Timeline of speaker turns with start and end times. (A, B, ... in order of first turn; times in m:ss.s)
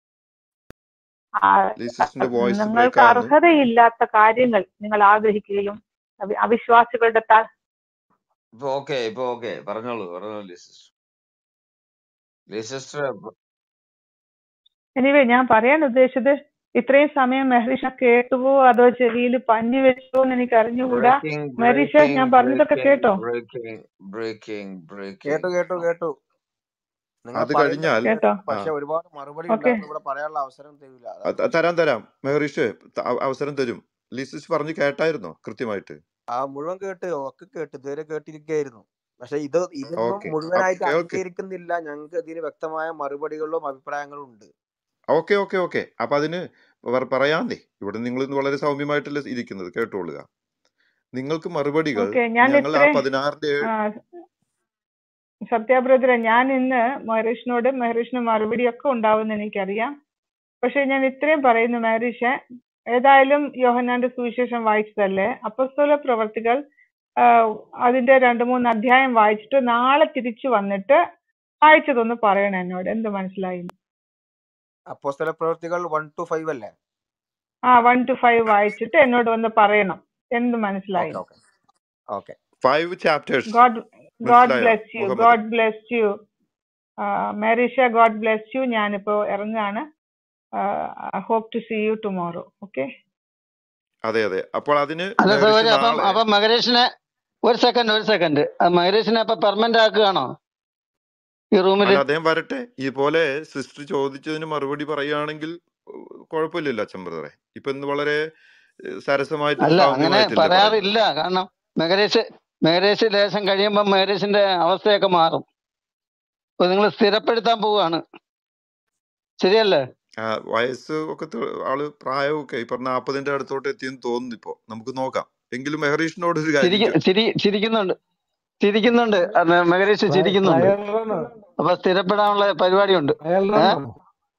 0:01.4-0:07.4 A
0:01.8-0:03.3 B
0:08.6-0:10.9 C
0:12.5-0:13.3 C
0:15.0-0:23.2 A
0:20.9-0:25.8 C
0:25.3-0:26.1 D
0:27.2-0:31.3 D
0:27.3-0:28.7 B
0:28.1-0:28.4 A
0:29.5-0:29.8 A
0:31.2-0:36.0 B
0:36.3-0:44.5 D
0:40.0-0:41.2 B
0:45.1-0:50.2 B
0:51.1-0:53.7 B
0:52.0-0:53.0 A
0:55.5-0:59.9 A
1:00.6-1:02.4 A
1:02.9-1:06.6 A
1:07.8-1:11.0 A
1:11.6-1:13.7 A
1:14.9-1:16.7 D
1:17.7-1:21.2 A
1:21.0-1:21.3 D
1:22.6-1:23.6 B
1:23.5-1:26.1 A
1:24.2-1:25.4 B
1:27.4-1:29.8 A
1:31.2-1:32.8 A
1:34.1-1:36.2 B
1:35.2-1:36.8 E
1:37.4-1:40.3 E
1:41.6-1:42.0 E
1:41.8-1:48.2 B
1:49.0-1:51.0 B
1:49.6-1:55.4 E
1:56.6-1:58.0 E
1:59.4-1:59.8 E
2:00.2-2:07.0 B
2:06.6-2:07.9 E
2:08.6-2:10.7 E
2:10.1-2:11.3 F
2:11.6-2:13.8 E
2:13.2-2:13.9 F